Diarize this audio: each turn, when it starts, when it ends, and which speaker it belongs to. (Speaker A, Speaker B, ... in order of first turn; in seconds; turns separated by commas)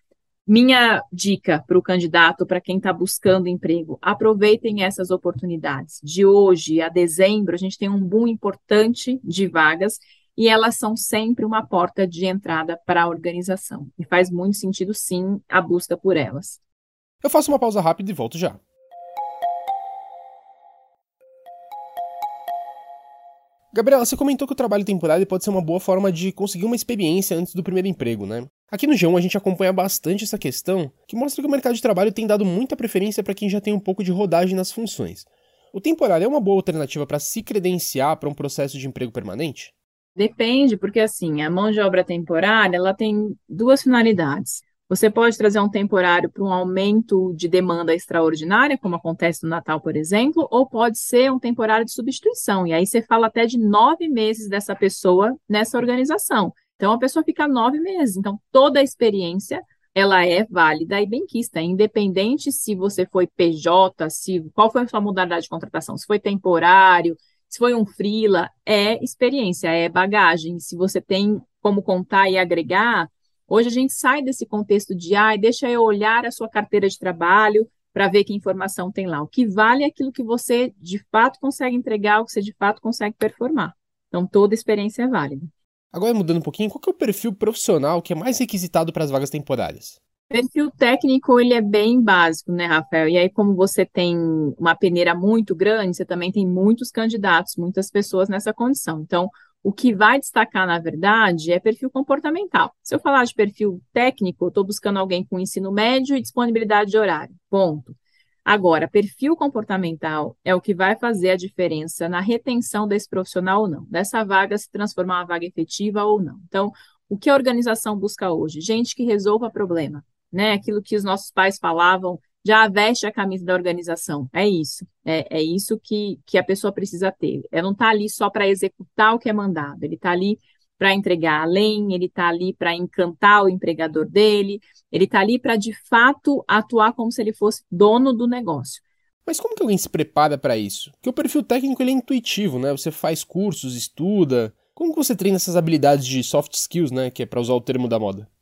Speaker A: 0.5-16.6, Speaker B: 17.2-18.6, Speaker B: 23.7-39.7, Speaker A: 40.1-85.5, Speaker B: 85.9-90.0, Speaker A: 90.3-138.8, Speaker B: 139.2-148.3